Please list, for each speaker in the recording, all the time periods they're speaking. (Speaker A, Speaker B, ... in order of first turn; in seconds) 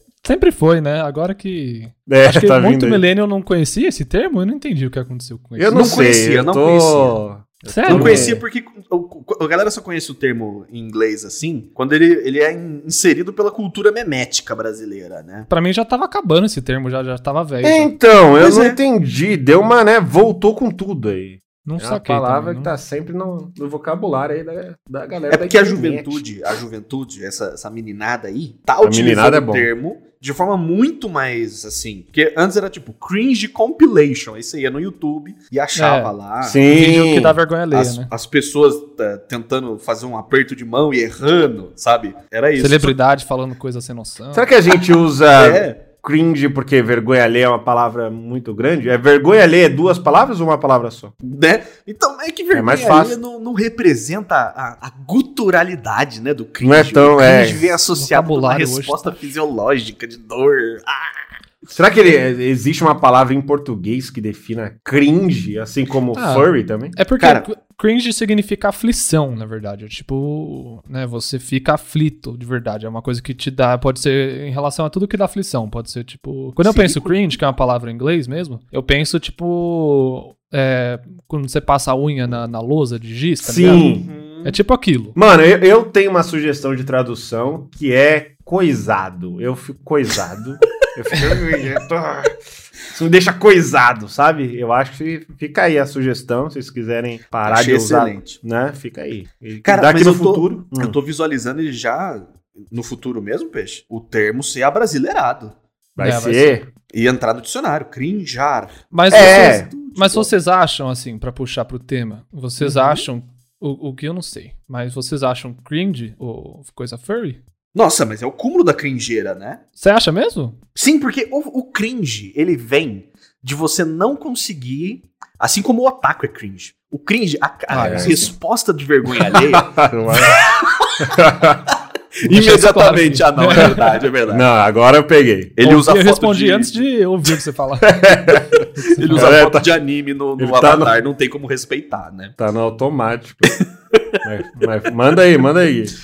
Speaker A: 0.2-5.8, 7.7-8.4, 15.5-17.9, 21.6-22.7, 35.8-36.1, 36.7-38.1, 42.6-44.5, 57.9-59.2, 66.1-83.8, 84.4-85.1, 106.0-106.6, 108.9-117.4, 119.8-120.6, 127.7-128.3, 132.2-133.9, 135.6-138.1, 138.7-139.4
Speaker B: 2.1-3.0, 5.6-8.4, 17.6-26.2, 28.8-29.7, 36.4-37.4, 44.3-51.1, 52.5-53.2, 56.6-57.6, 61.7-67.0, 83.4-84.1, 85.1-101.0, 106.0-106.6, 109.1-109.7, 127.7-128.3, 129.3-130.4, 131.0-131.6, 134.3-135.5, 137.8-139.7, 140.4-140.9, 142.4-143.5, 144.2-145.9
Speaker C: 5.7-7.2, 7.9-15.5, 18.4-18.8, 25.3-36.9, 37.7-43.0, 45.3-45.8, 51.2-61.2, 67.2-67.5, 76.6-77.2, 83.6-84.6, 97.4-98.4, 99.6-105.5, 106.9-110.3, 112.6-113.0, 117.7-119.6, 120.8-131.2, 132.2-134.5, 135.6-136.8, 138.9-142.3